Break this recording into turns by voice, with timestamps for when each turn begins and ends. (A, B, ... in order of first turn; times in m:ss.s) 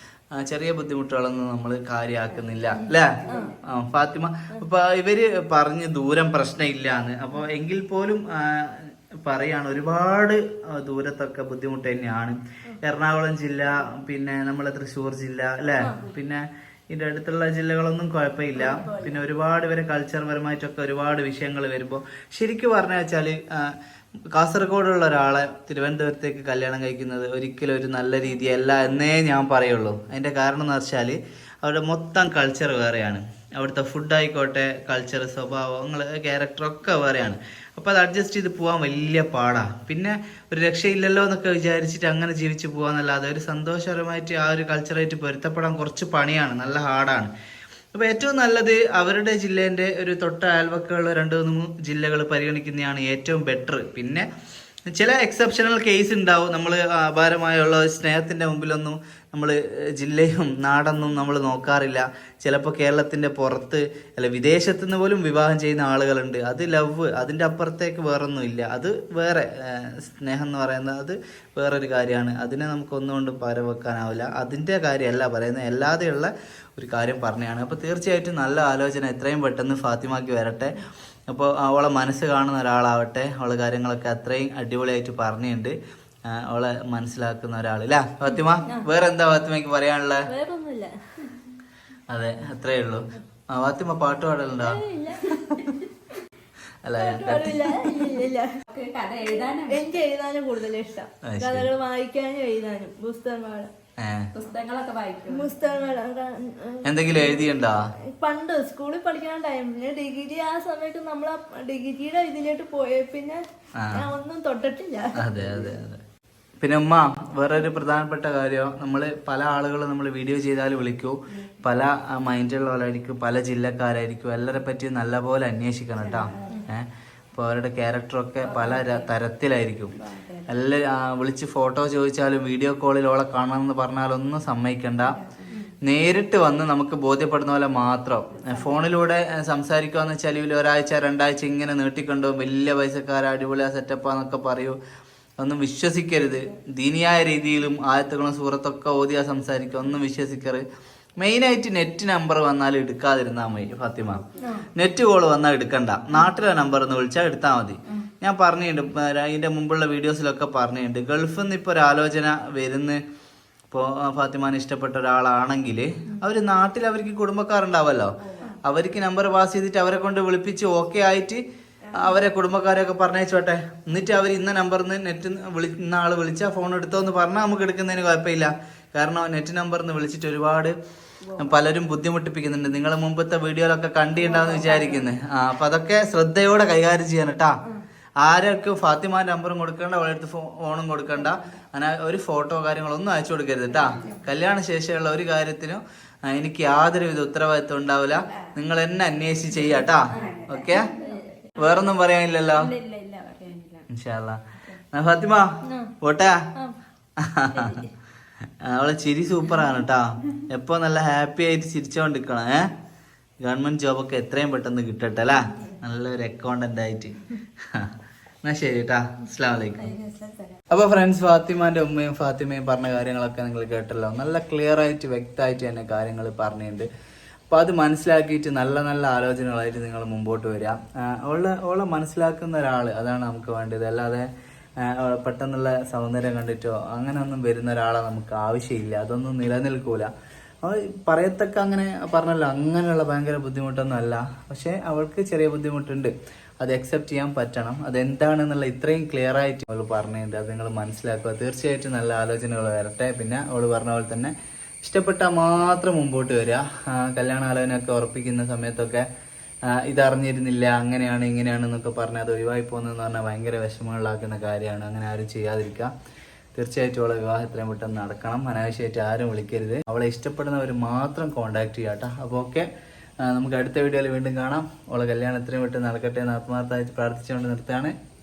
0:00.4-0:23.8 A
0:02.3-0:03.6 B
0:03.3-0:03.6 C
0:15.8-0:16.1 C
0:18.5-0:19.2 C
0:24.4-0:47.3 A
0:47.9-0:54.3 A
0:54.9-1:20.8 A
1:21.3-1:25.8 A
1:26.3-1:30.3 A
1:30.3-1:30.9 C
1:32.1-1:35.6 A
1:34.6-1:35.4 C
1:36.8-1:37.8 A
1:37.0-1:38.5 C
1:38.7-1:40.0 B
1:39.4-1:43.7 C
1:41.2-1:41.7 A
1:44.0-1:44.3 A
1:44.3-1:45.5 B
1:45.3-1:47.6 C
1:46.8-1:47.8 A
1:48.2-1:53.4 C
1:53.8-1:54.0 A
1:53.9-1:55.1 C
1:55.2-1:56.0 A
1:56.6-2:09.9 A
2:06.0-2:06.7 B
2:08.4-2:09.1 B
2:09.9-2:10.5 B
2:10.5-2:15.2 A
2:15.0-2:15.5 B
2:15.8-2:24.8 A
2:18.4-2:18.8 B
2:25.4-2:30.6 A
2:31.2-2:34.2 A
2:34.1-2:34.5 B
2:34.8-2:43.0 A
2:43.7-2:51.4 A
2:48.2-2:48.5 B
2:51.8-2:52.2 B
2:51.9-3:00.8 A
3:01.2-3:01.6 B
3:01.4-3:07.6 A
3:04.2-3:05.1 B
3:08.2-3:20.9 A
3:11.1-3:11.6 B
3:13.7-3:14.2 B
3:18.1-3:18.5 B
3:19.6-3:21.7 B
3:21.6-3:22.7 A
3:22.5-3:23.9 B
3:23.9-3:24.4 A
3:24.9-3:25.5 A
3:25.7-3:25.9 C
3:26.0-3:26.4 A
3:27.2-3:27.8 A
3:27.5-3:27.9 C
3:28.6-3:32.7 A
3:33.4-3:37.2 A
3:38.4-3:39.9 A
3:39.8-3:40.6 B
3:40.7-3:46.9 A
3:47.5-3:54.3 A
3:54.8-4:00.1 A
4:00.6-4:14.3 A
4:14.8-4:19.0 A
4:19.8-4:25.9 A
4:26.6-4:32.7 A
4:33.2-4:37.9 A